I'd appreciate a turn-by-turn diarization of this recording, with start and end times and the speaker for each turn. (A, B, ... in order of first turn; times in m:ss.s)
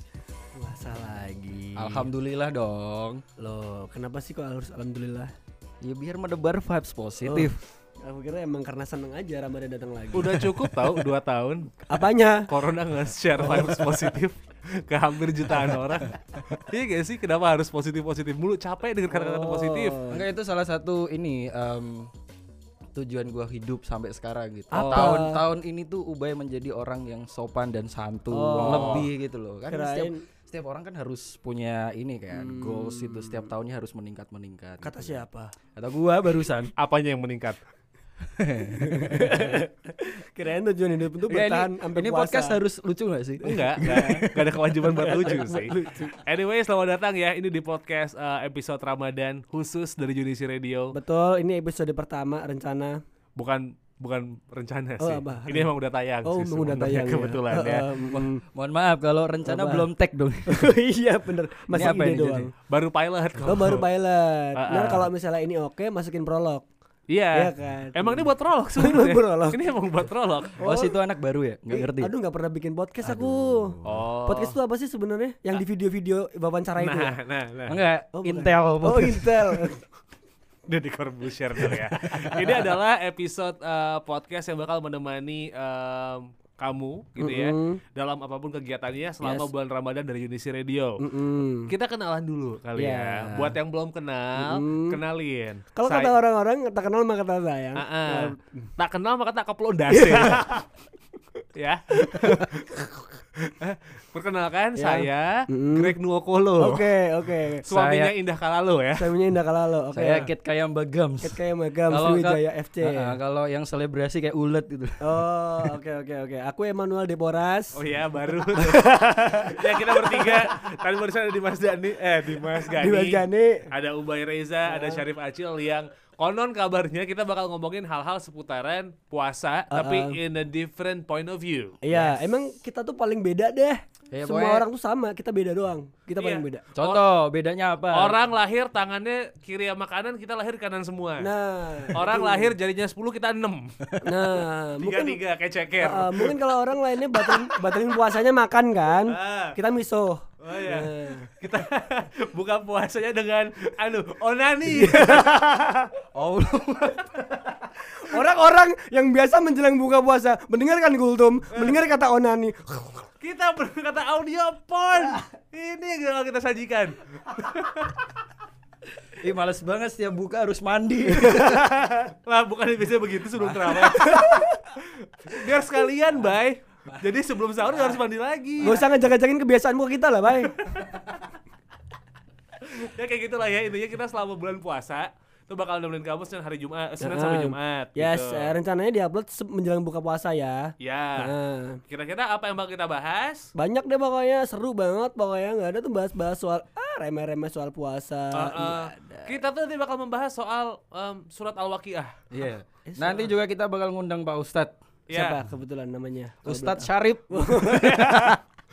0:00.6-0:02.1 A
0:01.8-0:03.2 B
0:03.4-0:05.3 A
0:05.8-0:07.6 B
0:07.2-0:10.5 A
0:10.1-0:11.9 C
0:11.9-0:12.5 A
0:12.5-0:20.0 C
0:13.4-0:14.1 A
0:19.1-0:20.3 A
0:20.1-0:22.1 B
0:22.9-0:35.2 B
0:24.7-0:25.4 A
0:24.8-0:25.1 C
0:28.3-0:29.1 A
0:28.6-0:29.1 C
0:29.7-0:30.3 A
0:32.3-0:33.5 A
0:34.8-0:35.5 A
0:35.8-0:36.7 B
0:36.8-0:37.6 C
0:38.2-0:39.6 B
0:38.7-0:42.6 A
0:41.3-0:44.5 B
0:43.4-0:50.9 C
0:43.8-0:44.3 A
0:44.8-0:46.2 A
0:50.9-0:53.0 A
0:53.4-0:57.8 C
0:55.0-0:55.7 A
0:56.2-0:58.4 A
0:58.1-1:00.7 B
0:59.4-0:59.9 A
1:00.5-1:02.5 A
1:01.7-1:02.5 B
1:02.7-1:03.8 C
1:03.4-1:06.6 A
1:04.6-1:05.1 C
1:07.1-1:10.6 C
1:07.3-1:09.7 A
1:10.6-1:11.0 A
1:10.6-1:12.1 B
1:11.7-1:17.1 A
1:13.0-1:14.1 B
1:13.8-1:14.6 C
1:16.8-1:17.8 C
1:17.7-1:19.7 B
1:18.1-1:19.8 A
1:20.7-1:31.0 C
1:22.2-1:22.5 B
1:27.2-1:27.8 A
1:29.2-1:29.5 A
1:31.0-1:31.7 A
1:31.7-1:36.1 C
1:32.8-1:33.6 A
1:34.4-1:35.0 A
1:35.8-1:38.6 A
1:37.8-1:40.6 C
1:39.9-1:40.6 A
1:41.6-1:46.9 C
1:42.0-1:42.6 A
1:44.8-1:46.0 A
1:46.6-1:47.7 A
1:47.6-1:49.1 C
1:47.7-1:48.1 B
1:49.0-1:50.3 A
1:49.9-1:55.7 B
1:51.2-1:53.2 A
1:55.0-1:57.8 A
1:57.7-2:11.8 C
1:58.5-2:00.5 A
2:02.7-2:03.7 A
2:04.7-2:05.0 A
2:09.7-2:10.2 A
2:11.8-2:16.7 A
2:11.9-2:12.2 B
2:14.1-2:14.7 B
2:16.2-2:17.0 C
2:16.8-2:18.2 B
2:17.9-2:21.3 C
2:21.2-2:22.6 A
2:21.9-2:24.0 C
2:24.0-2:25.2 A
2:24.8-2:26.4 C
2:25.8-2:31.3 A
2:27.3-2:27.6 C
2:29.1-2:29.6 C
2:30.4-2:35.5 C
2:34.7-2:35.9 A
2:36.2-2:37.1 B
2:37.6-2:43.1 A
2:43.2-2:48.1 C
2:49.2-2:51.7 B
2:51.1-2:51.9 A
2:52.0-2:58.8 C
2:53.7-2:54.6 A
2:58.6-3:00.6 A
3:00.6-3:01.1 C
3:02.6-3:08.6 C
3:07.0-3:11.8 A
3:10.8-3:11.3 C
3:11.9-3:13.5 C
3:13.6-3:19.4 A
3:18.3-3:22.1 C
3:22.3-3:24.7 B
3:22.9-3:23.3 A
3:25.1-3:25.4 C
3:25.1-3:28.2 A
3:26.4-3:28.4 B
3:27.8-3:28.4 C